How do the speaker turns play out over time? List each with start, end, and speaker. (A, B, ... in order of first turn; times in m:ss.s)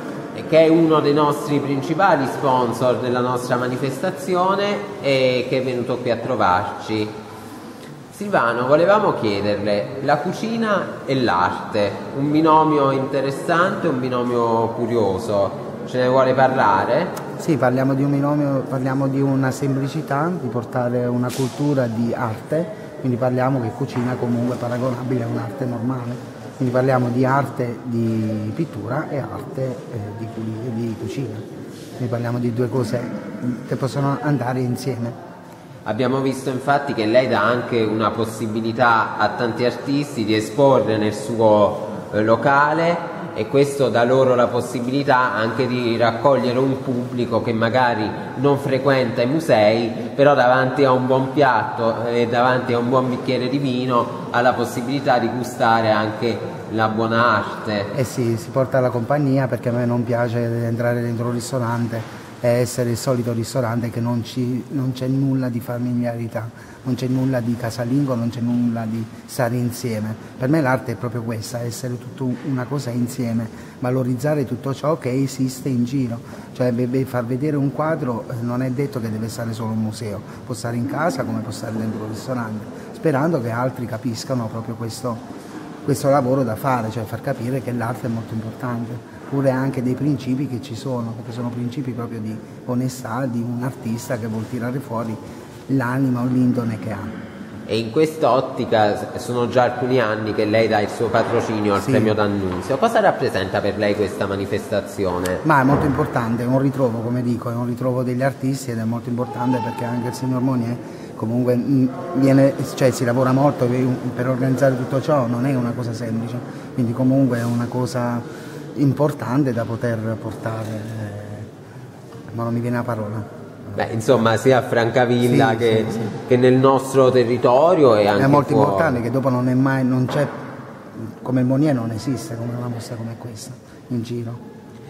0:00.4-0:07.1 A
0:08.1-0:17.1 A
0:17.4-0:31.4 B
0:32.0-0:35.2 B
0:35.9-0:57.9 A
0:57.9-1:25.2 B
1:25.8-1:37.2 B
1:37.7-1:45.4 A
1:41.8-1:42.2 B
1:45.4-1:58.2 B
1:58.8-2:01.5 B
2:02.3-2:03.8 B
2:03.8-2:09.0 A
2:05.2-2:06.1 B
2:08.2-2:10.3 B
2:11.2-2:14.4 B